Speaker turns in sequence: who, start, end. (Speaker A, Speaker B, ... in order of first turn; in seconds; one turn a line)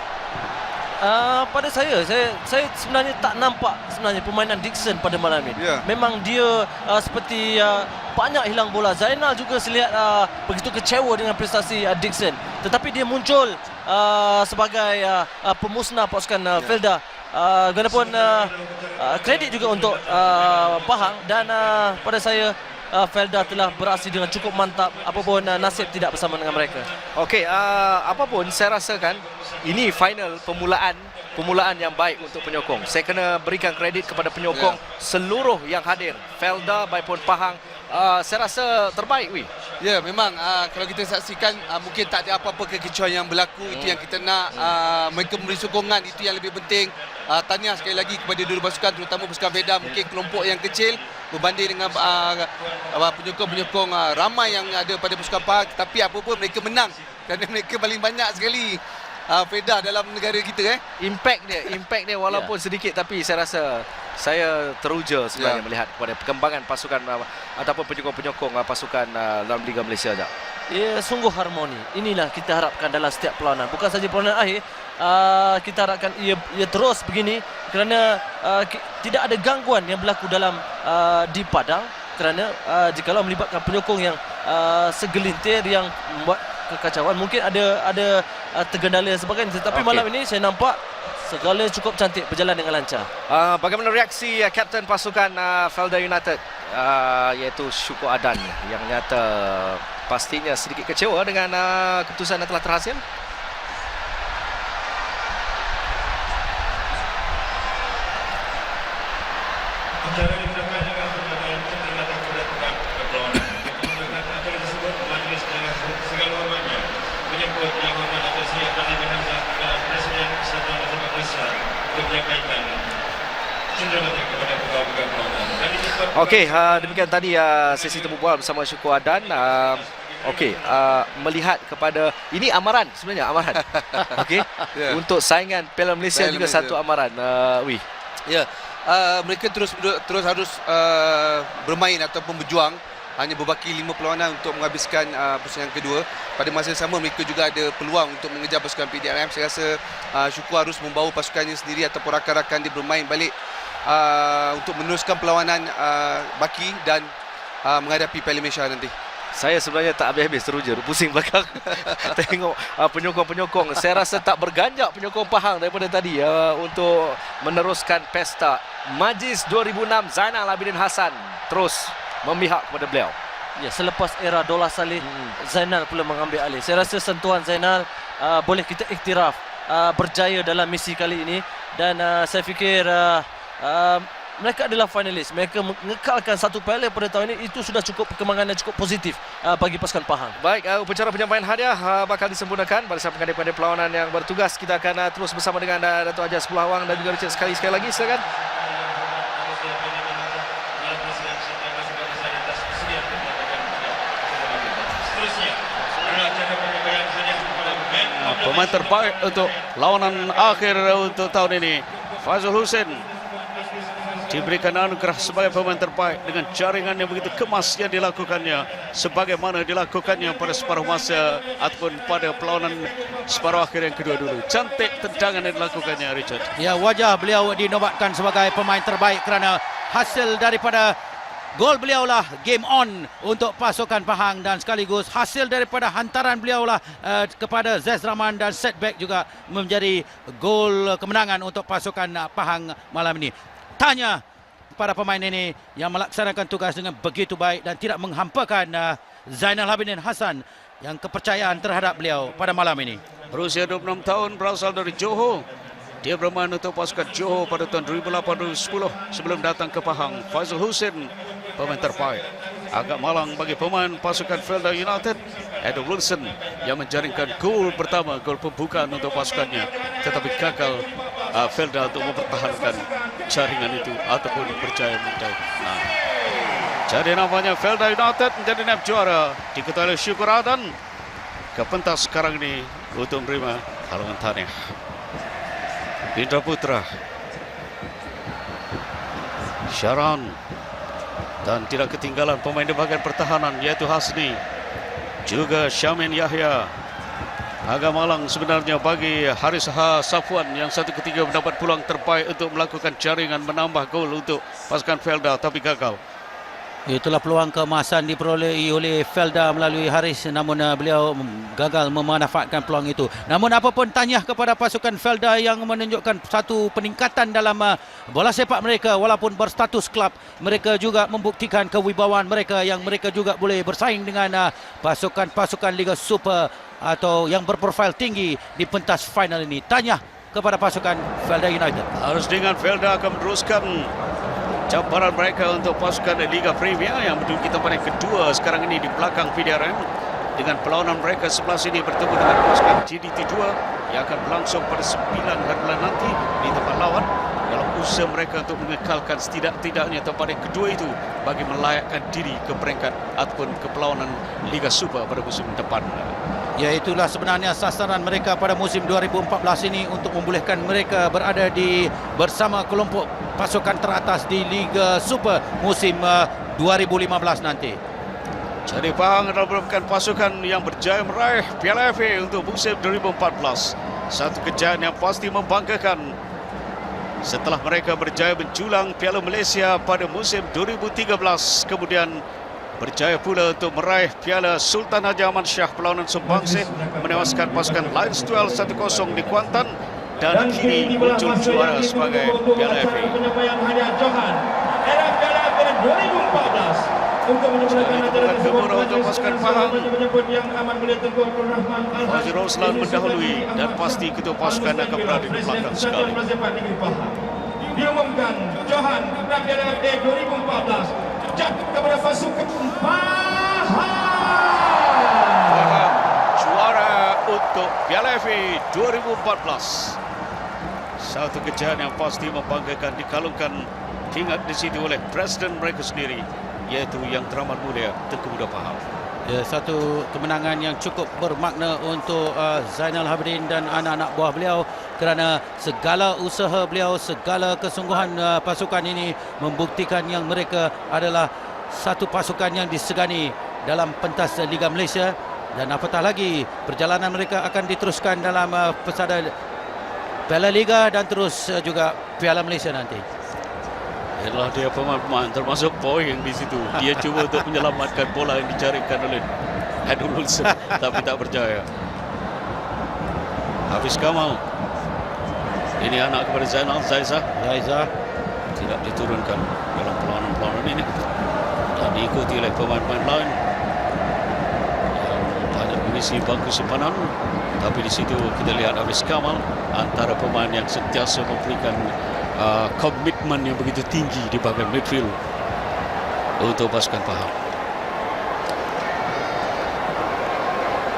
Speaker A: 1.0-26.9
Speaker B: 5.5-5.8
Speaker C: 27.1-39.5
Speaker B: 34.5-34.8
Speaker B: 39.8-60.8
Speaker C: 43.7-44.8
Speaker C: 61.0-70.3
Speaker B: 65.3-65.6
Speaker A: 70.7-93.1
Speaker C: 89.7-90.0
Speaker C: 93.3-103.0
Speaker C: 110.0-122.8
Speaker C: 123.7-137.8
Speaker B: 133.7-135.0
Speaker B: 136.1-136.8
Speaker B: 138.2-153.3
Speaker B: 153.8-157.1
Speaker B: 157.6-158.9
Speaker C: 159.3-173.1
Speaker A: 173.6-190.4
Speaker C: 175.0-175.3
Speaker C: 190.4-208.6
Speaker D: 208.0-213.0
Speaker D: 214.3-226.5
Speaker E: 226.6-230.9
Speaker E: 231.5-244.2
Speaker E: 244.7-253.0
Speaker D: 253.3-255.4
Speaker D: 256.0-275.9
Speaker D: 276.9-280.7
Speaker D: 281.5-284.5
Speaker D: 286.1-286.8
Speaker D: 289.7-290.4
Speaker D: 291.4-294.4
Speaker D: 295.2-296.7
Speaker D: 297.7-306.0
Speaker E: 306.9-331.9
Speaker D: 331.9-333.9
Speaker D: 334.7-339.8
Speaker D: 340.4-356.1
Speaker E: 356.6-367.8
Speaker D: 368.7-376.1
Speaker D: 377.2-382.2
Speaker D: 382.8-393.2
Speaker F: 386.4-388.1
Speaker F: 390.5-391.6
Speaker F: 392.4-403.6
Speaker D: 397.6-399.9
Speaker D: 402.0-406.2
Speaker F: 405.1-405.5
Speaker F: 406.4-407.1
Speaker F: 407.9-413.0
Speaker A: 412.8-415.3
Speaker D: 415.4-420.0
Speaker D: 421.0-428.8
Speaker E: 429.2-449.3
Speaker E: 450.3-453.0
Speaker D: 454.2-459.3
Speaker D: 459.8-461.7
Speaker D: 463.7-464.4
Speaker D: 465.8-467.2
Speaker E: 467.4-467.9
Speaker D: 468.6-470.9
Speaker D: 471.7-473.4
Speaker D: 474.9-485.1
Speaker D: 486.4-487.3